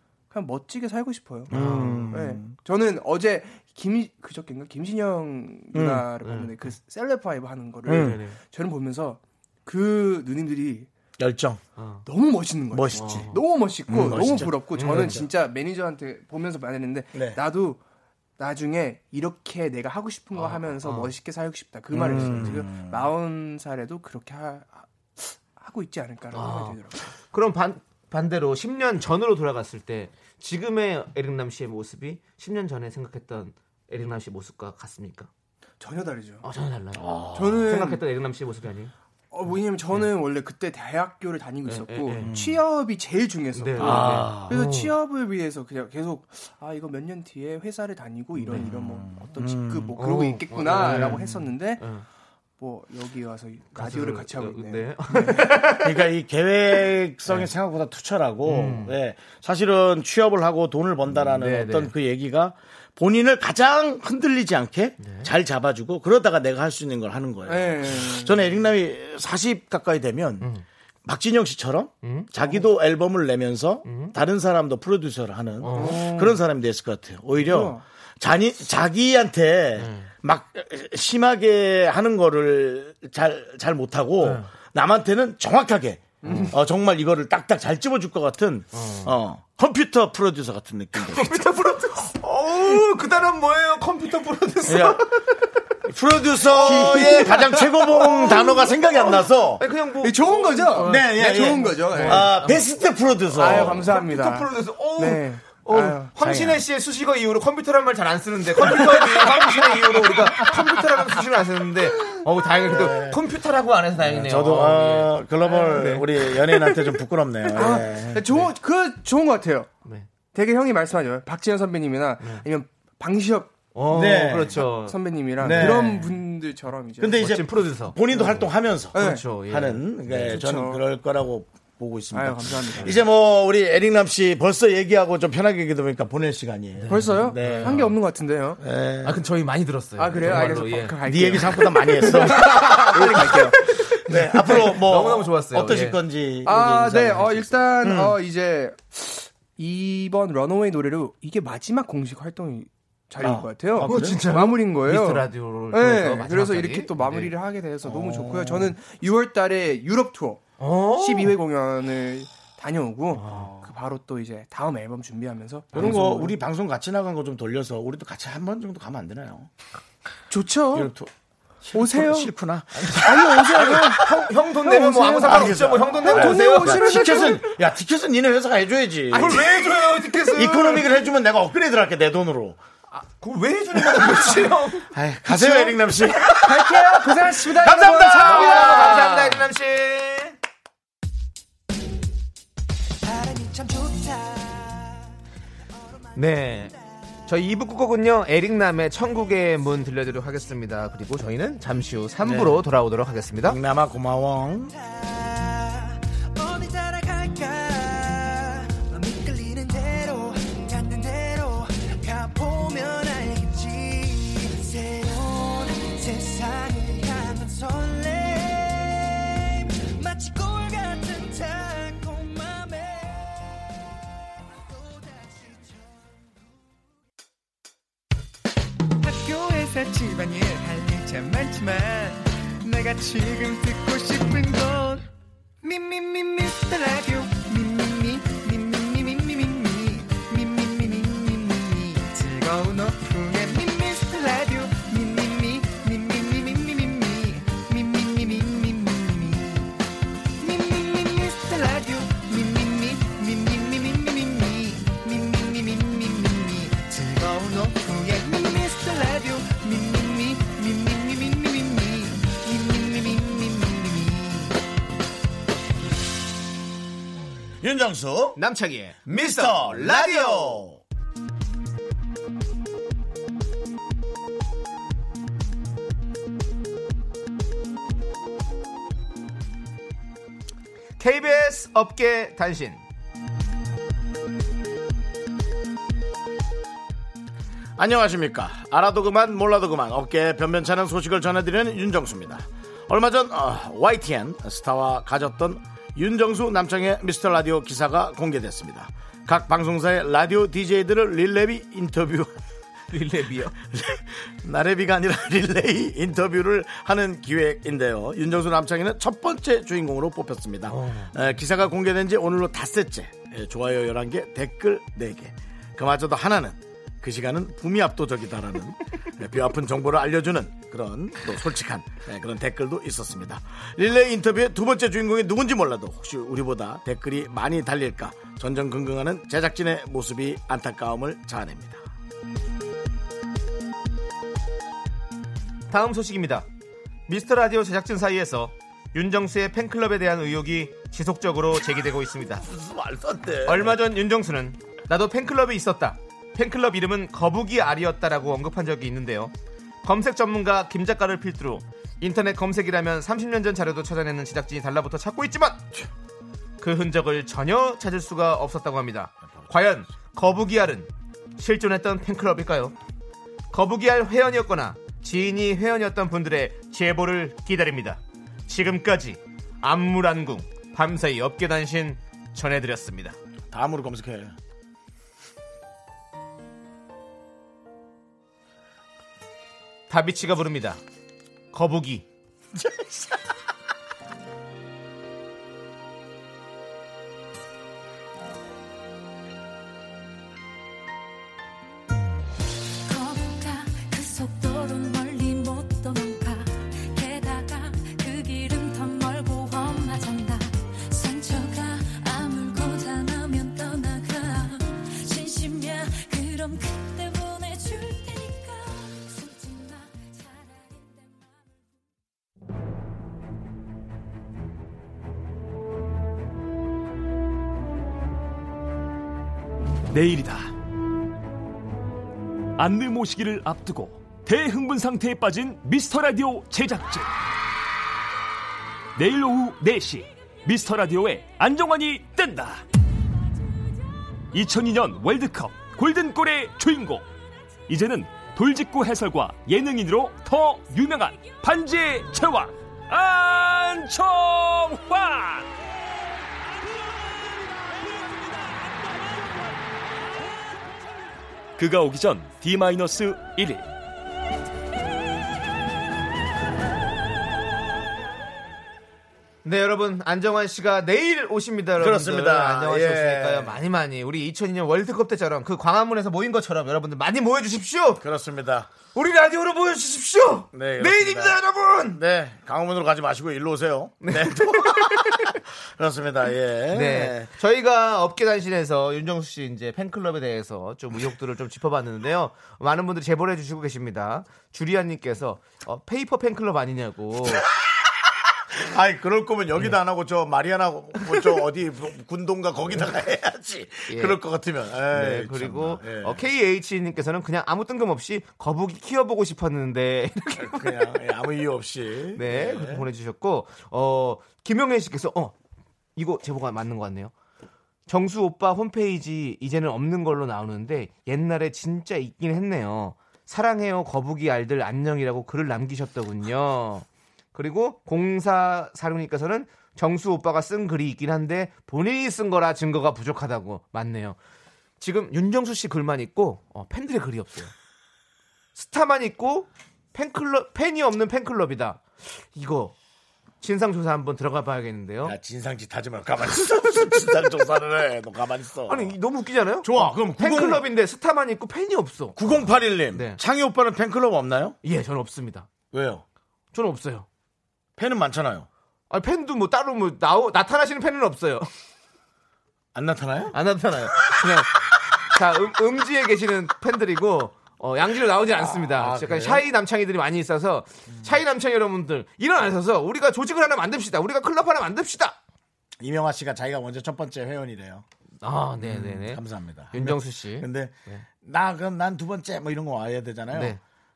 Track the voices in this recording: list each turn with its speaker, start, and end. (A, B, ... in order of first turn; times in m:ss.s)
0:00.3-0:01.5 A
0:01.5-0:02.6 B
0:01.5-0:02.1 C
0:02.1-0:10.9 A
0:05.7-0:06.1 B
0:06.2-0:06.7 C
0:07.8-0:08.2 B
0:07.9-0:08.4 C
0:11.2-0:11.6 B
0:11.8-0:12.0 C
0:12.0-0:17.8 A
0:12.7-0:13.3 B
0:12.9-0:13.4 C
0:13.9-0:15.3 B
0:14.1-0:15.2 C
0:17.1-0:17.4 B
0:18.4-0:27.1 A
0:20.3-0:21.1 C
0:21.9-0:23.1 B
0:22.0-0:22.5 C
0:26.3-0:26.8 C
0:27.3-0:35.3 C
0:35.8-0:36.4 A
0:36.4-0:37.0 C
0:36.9-0:37.7 B
0:37.3-0:38.0 A
0:37.6-0:38.9 C
0:39.3-0:51.8 A
0:41.6-0:42.3 C
0:42.2-0:42.6 B
0:43.5-0:44.9 C
0:43.8-0:44.6 B
0:48.4-0:48.7 C
0:48.5-0:50.0 B
0:50.0-0:52.0 C
0:50.7-0:51.2 B
0:52.6-0:55.5 A
0:53.7-0:56.1 C
0:55.5-1:10.5 B
0:58.4-0:58.9 C
1:01.2-1:01.9 C
1:05.0-1:05.3 C
1:07.4-1:08.4 A
1:11.0-1:31.7 B
1:12.0-1:12.3 C
1:13.8-1:14.2 C
1:15.6-1:16.0 C
1:15.7-1:16.4 A
1:17.4-1:17.8 A
1:19.8-1:20.1 C
1:24.2-1:24.5 C
1:26.2-1:26.6 A
1:26.2-1:26.5 C
1:28.7-1:29.1 C
1:31.0-1:35.4 C
1:34.7-1:35.0 B
1:35.8-1:39.6 B
1:36.4-1:38.5 C
1:36.6-1:38.7 A
1:39.6-1:42.6 C
1:40.0-1:42.3 A
1:40.8-1:43.9 B
1:43.3-1:46.1 A
1:43.4-1:55.2 C
1:46.2-1:46.6 B
1:52.6-1:53.2 B
1:54.0-1:58.3 B
1:55.4-1:56.9 A
1:55.7-1:56.1 C
1:57.5-1:59.7 A
2:00.3-2:03.5 A
2:03.7-2:06.1 C
2:03.9-2:04.6 B
2:04.6-2:07.2 A
2:05.4-2:06.0 B
2:07.0-2:17.9 B
2:07.2-2:10.3 C
2:08.9-2:09.2 A
2:10.2-2:10.8 A
2:12.1-2:13.0 A
2:16.8-2:18.0 C
2:16.9-2:18.6 A
2:18.6-2:19.2 B
2:19.0-2:21.5 C
2:20.0-2:24.7 A
2:21.0-2:28.2 B
2:22.4-2:26.0 C
2:26.4-2:40.4 A
2:33.2-2:34.2 B
2:33.8-2:37.3 C
2:37.8-2:38.8 B
2:40.6-2:41.3 C
2:40.9-2:46.3 A
2:43.1-2:43.6 C
2:45.7-2:49.5 B
2:45.8-2:46.0 C
2:50.3-2:50.9 A
2:50.7-2:53.9 B
2:51.7-2:52.3 A
2:52.8-2:57.3 C
2:53.0-2:57.5 A
2:55.2-2:59.7 B
2:59.1-3:00.9 C
2:59.2-2:59.5 A
3:00.3-3:02.6 B
3:02.9-3:04.9 C
3:03.9-3:04.4 B
3:04.9-3:09.2 B
3:05.3-3:05.7 A
3:06.4-3:09.4 A
3:07.9-3:10.4 C
3:13.0-3:15.1 D
3:15.8-3:17.0 D
3:16.1-3:16.7 C
3:17.3-3:23.6 C
3:22.2-3:22.6 B
3:23.4-3:24.7 B
3:24.7-3:43.4 D
3:44.6-3:45.9 D
3:49.0-3:55.1 D
3:55.6-4:09.8 D
4:10.4-4:24.6 D
4:27.6-4:28.4 B
4:28.4-4:30.6 C
4:29.1-4:30.8 B
4:41.0-4:42.8 C
4:47.8-5:02.3 B
5:02.9-5:03.5 C
5:03.6-5:31.8 B
5:10.7-5:11.1 C
5:35.7-5:36.4 C
5:37.1-5:42.4 C
5:42.4-5:43.8 B
5:43.4-5:49.3 C
5:49.8-5:55.6 C
5:56.6-6:02.7 C
6:03.5-6:13.2 C
6:13.5-6:14.4 B
6:19.9-6:20.8 C
6:21.5-6:22.0 C
6:22.6-6:23.2 B
6:32.8-6:51.9 E
6:59.9-7:00.5 F
7:02.6-7:07.1 F
7:09.0-7:12.6 F
7:14.3-7:17.1 F
7:17.7-7:25.5 F
7:31.6-7:33.6 F
7:39.4-7:48.0 C
7:41.8-7:43.6 B
7:48.0-7:48.7 B
7:48.9-7:52.0 C
7:50.5-7:51.4 B
7:51.9-7:57.3 B
7:54.0-7:55.4 C
7:56.7-8:07.4 C
8:07.4-8:16.2 B
8:13.9-8:14.2 C
8:14.9-8:20.9 C
8:20.4-8:22.8 B
8:22.1-8:25.3 C
8:26.0-8:27.1 C
8:27.9-8:44.2 C
8:44.8-8:47.5 C
8:48.5-8:52.7 C
8:53.4-8:55.1 C
8:55.0-8:58.9 B
8:58.7-9:02.4 C
8:59.6-9:00.6 B
9:02.2-9:04.6 B
9:02.9-9:03.2 C
9:04.6-9:05.5 C
9:05.7-9:06.0 B
9:06.5-9:07.1 C
9:07.8-9:08.5 B
9:08.9-9:11.5 C
9:12.7-9:13.4 B
9:13.3-9:25.2 C
9:18.3-9:19.4 B
9:20.9-9:21.2 B
9:25.8-9:27.8 B
9:28.2-9:29.2 C
9:28.6-9:33.6 B
9:29.7-9:31.0 C
9:33.3-9:33.6 C